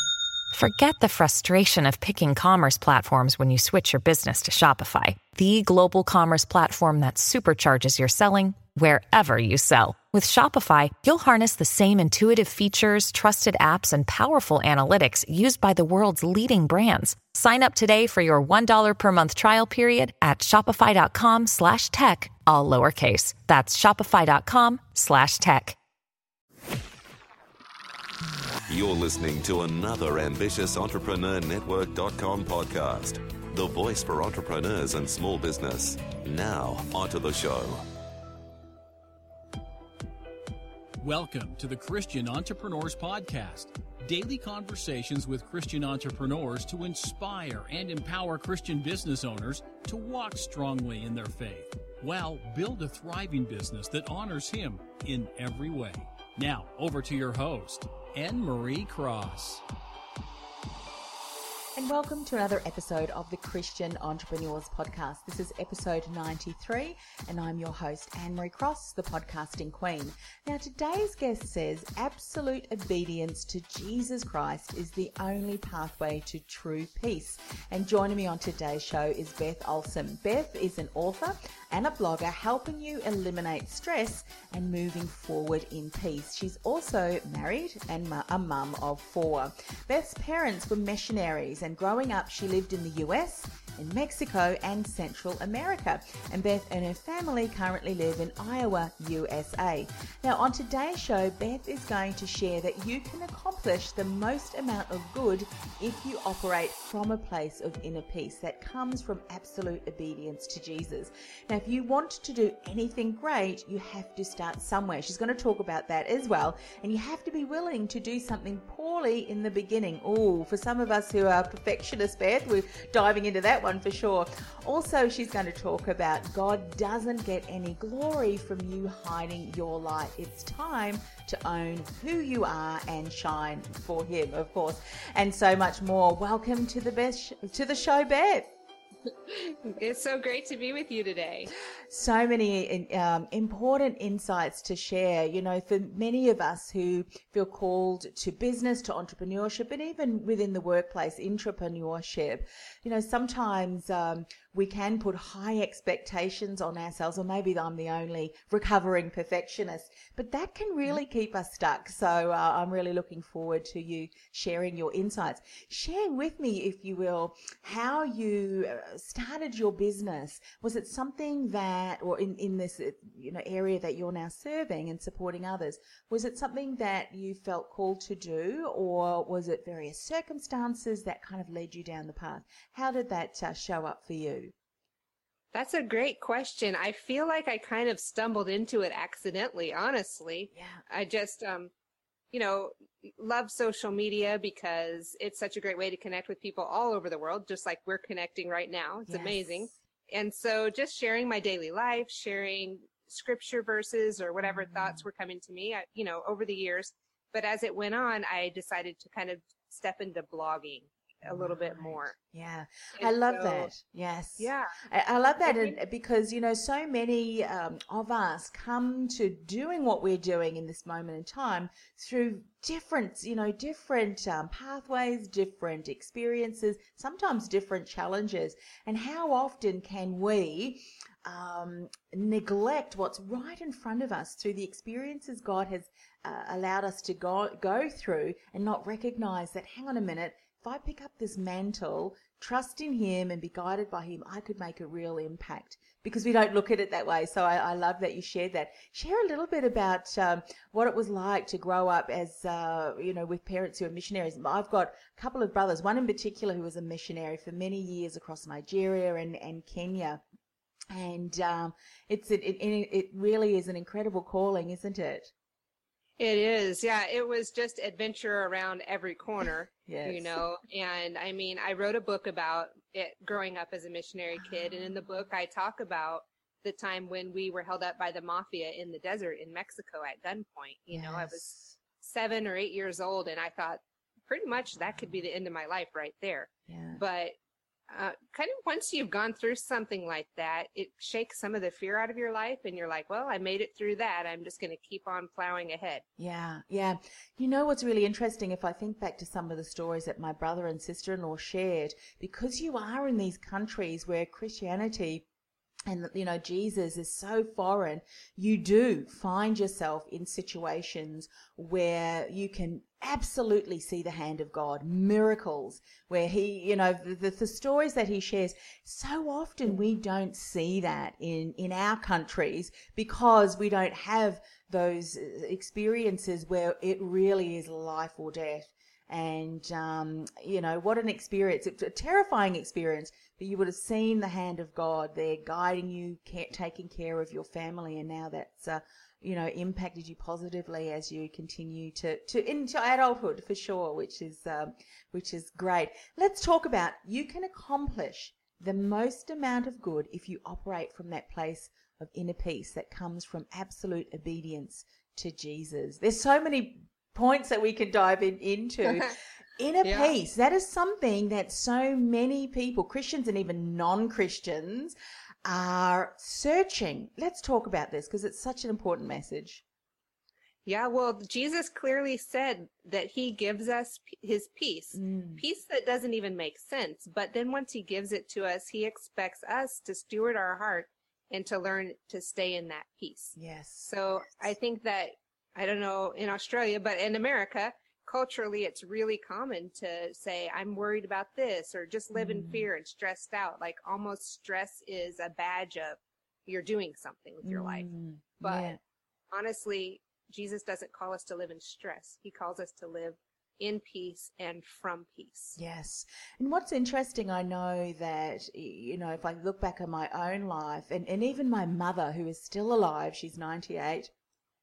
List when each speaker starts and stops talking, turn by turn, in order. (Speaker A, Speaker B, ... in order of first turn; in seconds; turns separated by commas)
Speaker A: 0.5-25.8, Speaker B: 28.7-37.8, Speaker C: 41.0-59.6, Speaker D: 61.8-138.5, Speaker E: 139.3-141.5, Speaker D: 141.9-184.5, Speaker E: 185.5-191.7, Speaker D: 190.5-190.8, Speaker E: 192.3-212.2, Speaker D: 199.1-199.8, Speaker D: 204.4-205.0, Speaker D: 211.3-260.2, Speaker E: 213.0-213.7, Speaker E: 214.4-214.7, Speaker E: 215.4-215.8, Speaker D: 260.9-265.3, Speaker E: 266.2-287.4, Speaker D: 269.9-270.4, Speaker D: 274.4-274.9, Speaker D: 280.9-281.8, Speaker D: 286.7-287.0, Speaker E: 287.9-296.0, Speaker D: 296.2-305.3, Speaker D: 305.9-369.6, Speaker E: 359.8-360.1, Speaker E: 370.7-397.9, Speaker D: 374.9-375.4, Speaker D: 383.4-383.9, Speaker D: 392.1-392.7, Speaker D: 397.4-398.8, Speaker E: 398.4-398.8, Speaker E: 399.3-405.6, Speaker D: 405.6-414.1